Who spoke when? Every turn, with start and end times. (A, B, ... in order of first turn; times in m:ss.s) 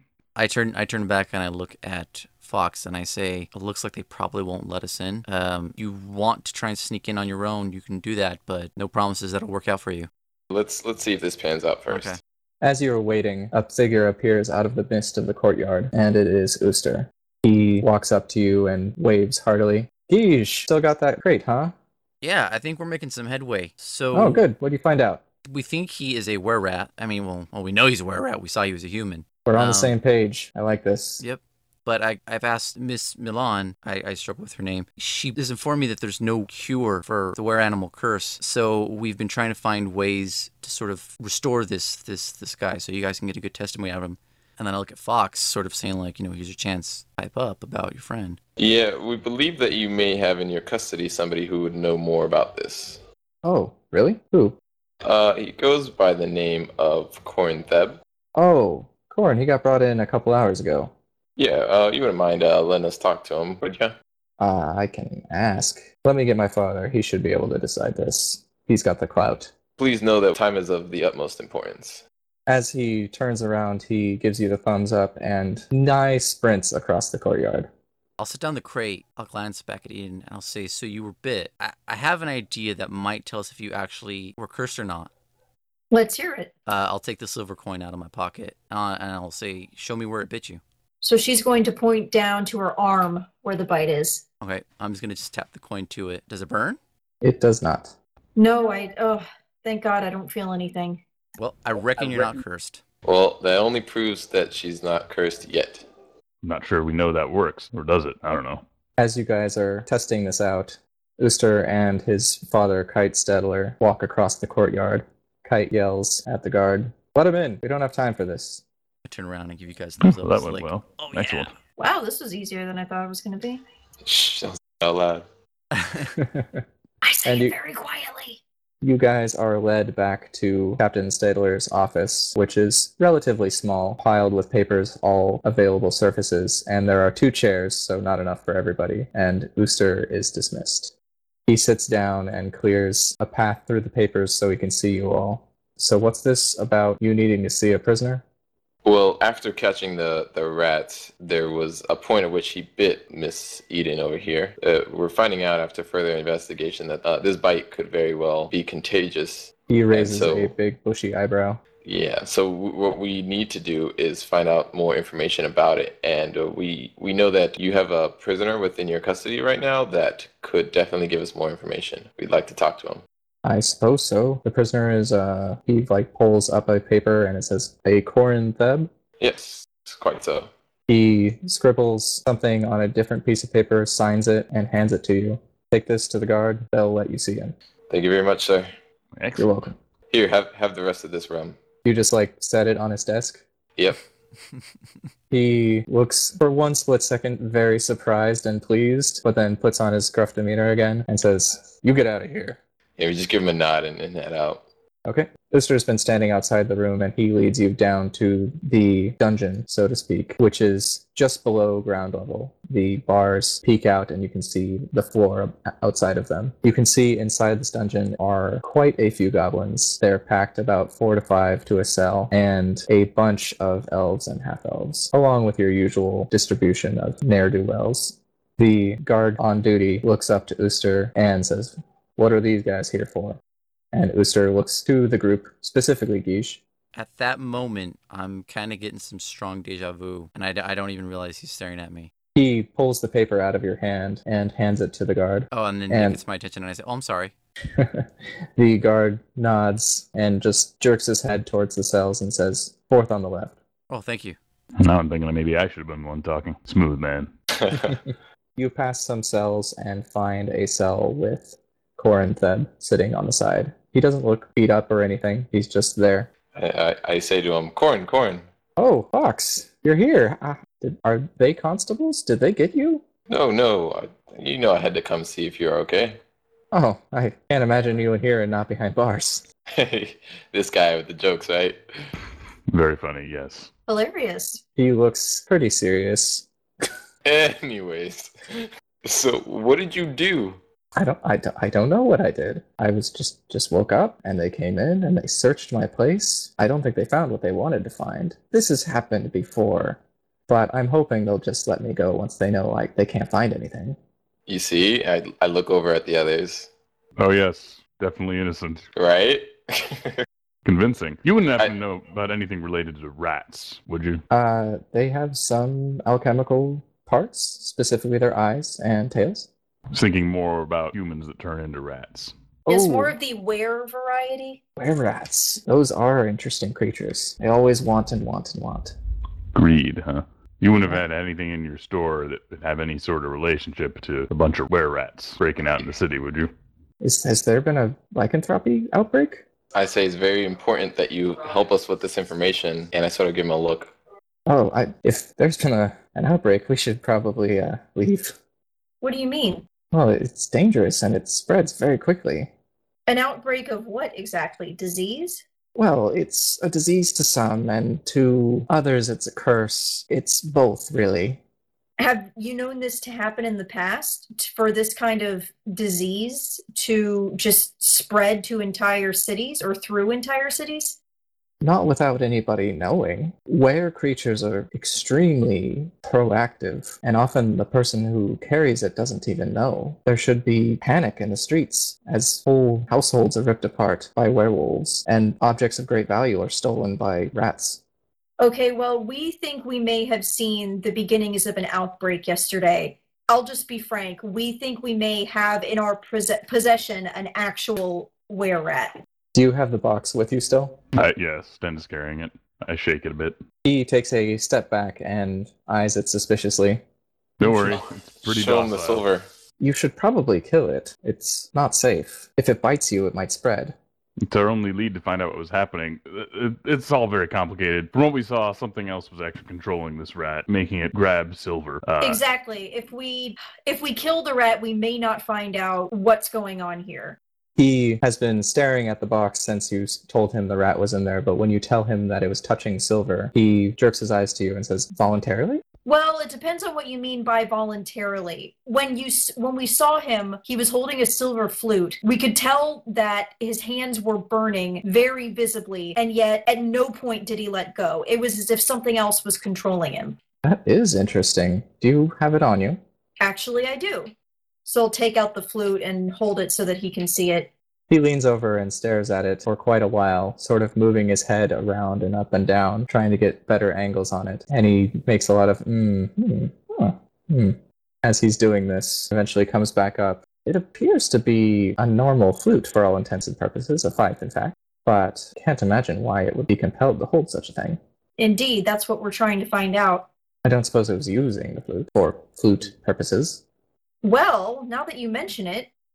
0:00.3-0:10.1 A
0:10.5-0:12.1 B
0:11.9-0:12.2 A
0:12.6-0:21.7 C
0:22.2-0:24.4 A
0:24.1-0:25.2 C
0:25.5-0:30.0 A
0:29.4-0:31.2 C
0:31.2-0:48.4 A
0:48.6-0:53.0 B
0:53.4-0:54.6 C
0:55.0-0:58.0 B
0:58.4-1:00.9 C
1:01.4-1:03.9 B
1:04.4-1:09.5 C
1:09.8-1:12.0 B
1:12.5-1:17.7 C
1:18.2-1:25.1 A
1:25.9-1:26.5 D
1:26.7-1:30.6 A
1:31.0-1:34.2 D
1:34.4-1:36.8 A
1:37.2-1:37.9 C
1:38.4-1:41.0 D
1:41.4-1:42.8 A
1:43.0-1:45.8 B
1:46.4-1:48.6 E
1:49.0-1:58.6 C
1:59.0-2:01.5 A
2:00.0-2:01.5 E
2:01.8-2:03.6 D
2:04.0-2:05.2 B
2:05.7-2:06.1 A
2:06.2-2:06.6 C
2:07.0-2:08.4 D
2:07.2-2:07.5 C
2:08.8-2:20.9 C
2:21.5-2:28.2 C
2:28.8-2:40.5 B
2:39.7-2:41.6 C
2:41.8-2:53.0 B
2:53.4-2:58.9 C
2:59.2-3:00.5 B
3:00.9-3:07.5 C
3:07.9-3:08.7 B
3:09.2-3:09.5 E
3:09.4-3:09.8 C
3:10.1-3:11.6 B
3:11.8-3:13.4 C
3:13.8-3:14.0 B
3:15.3-3:22.6 C
3:23.0-3:24.6 B
3:25.0-3:53.4 C
3:53.9-3:56.6 C
3:56.9-4:02.1 A
4:02.3-4:06.2 C
4:05.5-4:07.3 A
4:07.7-4:13.6 C
4:13.9-4:14.4 A
4:14.8-4:17.3 E
4:17.6-4:18.0 B
4:18.6-4:26.3 C
4:26.5-4:28.4 B
4:28.8-4:33.0 C
4:33.3-4:36.2 B
4:36.7-4:39.4 C
4:39.7-4:41.8 B
4:42.7-4:43.7 E
4:43.9-4:44.6 D
4:44.8-4:46.4 C
4:47.2-4:50.6 B
4:51.0-5:04.0 C
5:04.5-5:06.7 B
5:07.2-5:08.9 E
5:08.9-5:10.1 B
5:10.6-5:14.2 E
5:14.3-5:19.5 C
5:19.9-5:22.3 E
5:22.7-5:23.1 C
5:22.7-5:24.6 D
5:24.8-5:28.9 C
5:29.5-5:36.5 E
5:37.0-5:39.4 C
5:39.7-5:43.9 B
5:44.5-5:48.4 C
5:49.0-5:49.6 D
5:49.9-5:52.5 C
5:53.1-5:55.4 D
5:55.7-6:01.4 C
6:02.0-6:11.0 D
6:11.6-6:27.8 C
6:28.4-6:39.0 D
6:39.3-6:40.8 C
6:40.9-6:43.4 E
6:43.6-6:46.8 C
6:47.4-6:49.0 E
6:47.4-6:47.8 C
6:48.2-6:49.2 B
6:49.6-6:53.7 C
6:54.2-7:02.2 E
7:02.0-7:07.2 D
7:07.6-7:15.6 C
7:15.8-7:30.2 D
7:30.4-7:32.8 C
7:33.2-7:34.1 D
7:34.6-7:37.5 D
7:37.9-7:57.8 C
7:58.2-8:00.1 D
8:00.4-8:03.4 C
8:04.0-8:05.7 D